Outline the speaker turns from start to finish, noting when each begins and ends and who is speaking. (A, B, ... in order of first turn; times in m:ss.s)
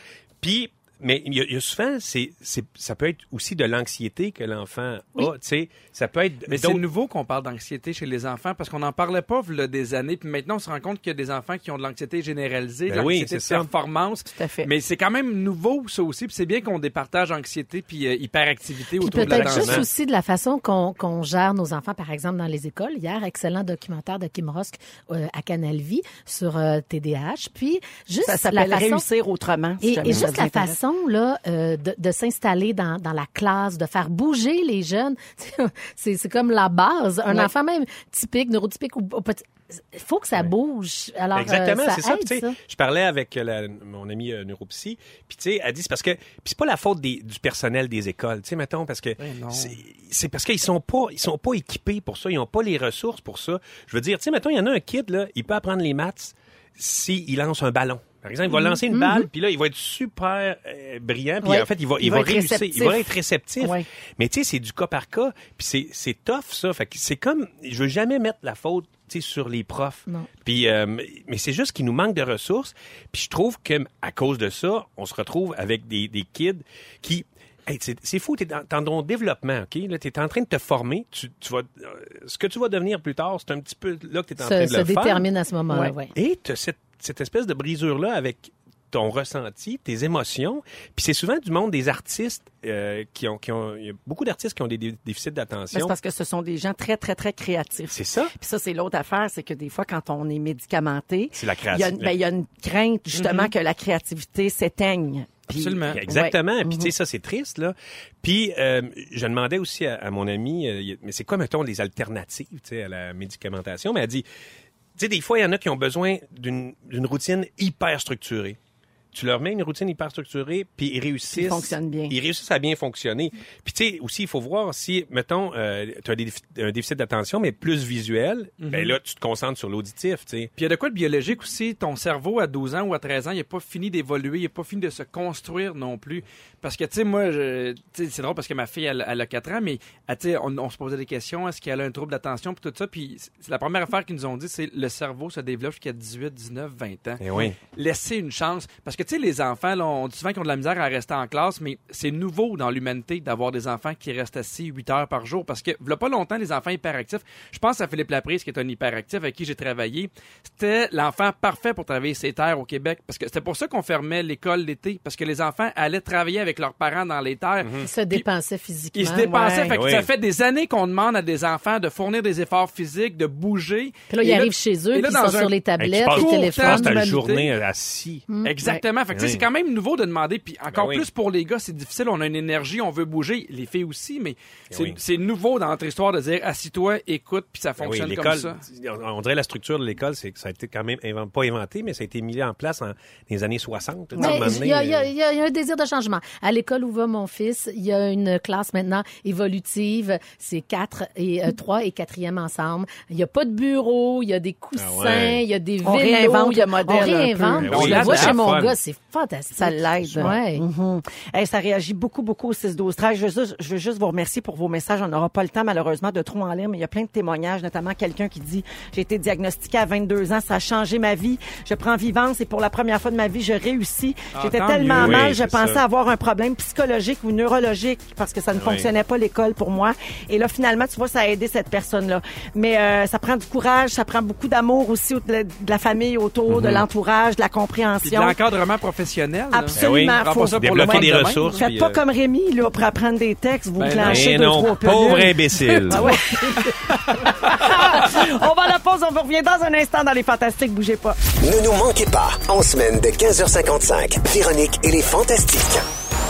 0:00.4-0:06.8 A
0:06.5-0:19.9 B
0:12.9-0:13.7 A
0:14.3-0:14.7 C
0:19.0-0:29.0 D
0:19.1-0:19.9 A
0:28.2-0:30.8 C
0:29.8-0:42.6 D
0:41.3-1:25.2 A
0:49.2-0:49.8 B
0:58.9-0:59.3 D
1:01.4-1:03.8 C
1:24.4-1:26.1 D
1:26.1-1:36.0 A
1:35.7-1:46.9 C
1:37.9-1:38.3 A
1:41.3-1:42.1 A
1:43.1-1:43.5 B
1:45.6-1:46.0 B
1:45.9-1:54.2 A
1:55.0-1:58.6 A
1:59.1-2:10.5 A
2:01.3-2:02.1 C
2:08.6-2:08.9 B
2:10.6-2:48.2 B
2:27.2-2:27.6 A
2:47.6-2:47.9 A
2:47.8-2:49.3 D
2:48.9-2:55.5 B
2:49.2-2:49.8 C
2:49.7-2:50.1 A
2:54.1-2:57.0 D
2:55.8-2:58.2 A
2:56.0-2:57.5 B
2:58.4-3:08.6 B
2:59.1-2:59.4 A
3:00.7-3:01.1 A
3:04.7-3:05.0 A
3:07.8-3:15.1 A
3:14.1-3:14.6 C
3:14.2-3:30.6 D
3:24.8-3:25.4 A
3:25.8-3:28.0 C
3:27.6-3:28.8 A
3:27.7-3:28.3 B
3:29.5-3:58.4 C
3:30.0-3:30.3 A
3:44.3-3:45.3 B
3:44.8-3:45.8 A
3:48.5-3:48.9 A
3:56.5-3:56.8 A
3:58.0-4:01.8 B
3:59.5-4:11.2 C
3:59.8-4:02.0 A
4:03.8-4:04.3 B
4:04.0-4:06.2 A
4:05.9-4:07.6 B
4:11.4-4:15.8 E